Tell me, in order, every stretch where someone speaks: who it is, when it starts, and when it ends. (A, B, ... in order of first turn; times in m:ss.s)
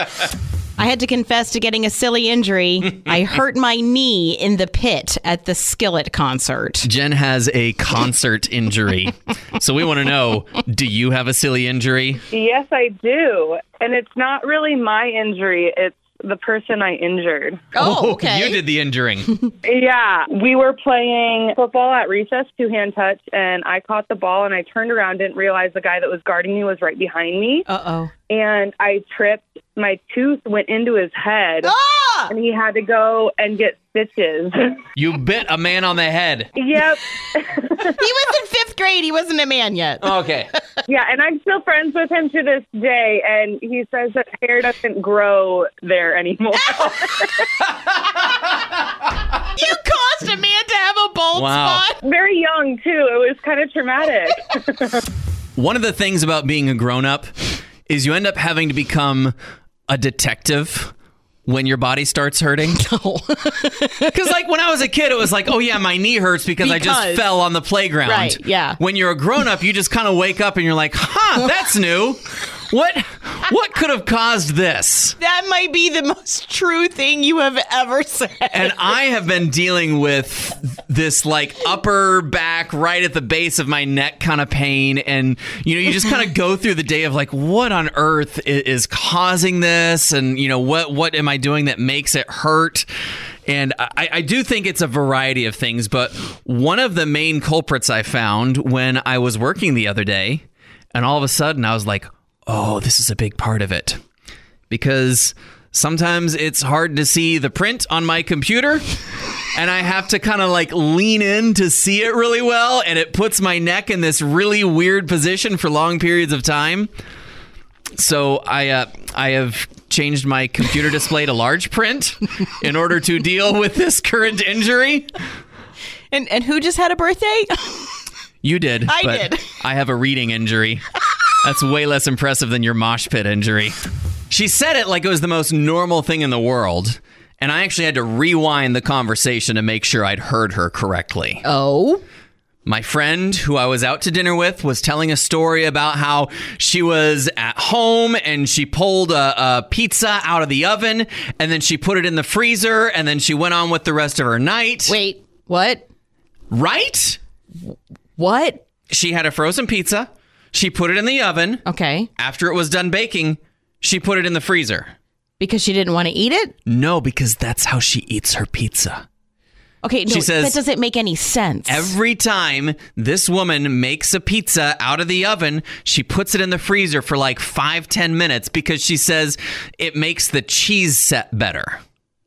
0:00.8-0:06.9 A
0:06.8-0:12.2 B
0:12.3-0:17.6 C
0:17.8-0:18.6 A
0:17.8-0:19.4 B
0:19.6-0:27.7 C
0:27.7-0:28.1 A
0:28.3-0:31.7 C
0:31.6-0:32.3 A
0:32.3-0:34.8 C
0:35.0-0:36.5 B
0:36.6-0:37.9 C
0:37.9-0:40.6 A
0:40.0-0:40.5 B
0:40.9-0:47.5 C
0:49.5-0:52.0 A
0:51.4-0:51.8 B
0:52.0-0:55.0 C
0:55.6-0:59.4 B
0:59.9-1:00.9 B
1:01.5-1:02.8 B
1:02.7-1:04.1 A
1:04.1-1:15.2 B
1:06.6-1:07.2 A
1:08.1-1:08.8 A
1:15.2-1:18.8 A
1:18.5-1:32.9 B
1:33.5-1:44.0 B
1:44.7-1:48.8 B
1:49.5-1:56.9 B
1:58.0-2:05.1 B
2:06.1-2:08.0 A
2:08.4-2:13.8 B
2:08.9-2:09.4 A
2:14.3-2:21.4 B
2:21.4-2:22.0 A
2:22.7-2:35.0 B
2:34.9-2:35.8 A
2:36.5-2:37.2 B
2:38.2-2:38.6 A
2:38.9-2:41.6 B
2:41.7-2:42.1 A
2:42.2-2:44.9 B
2:45.4-2:46.6 A
2:46.7-2:49.0 B
2:49.8-2:51.8 A
2:50.1-2:50.6 B
2:51.7-3:01.8 B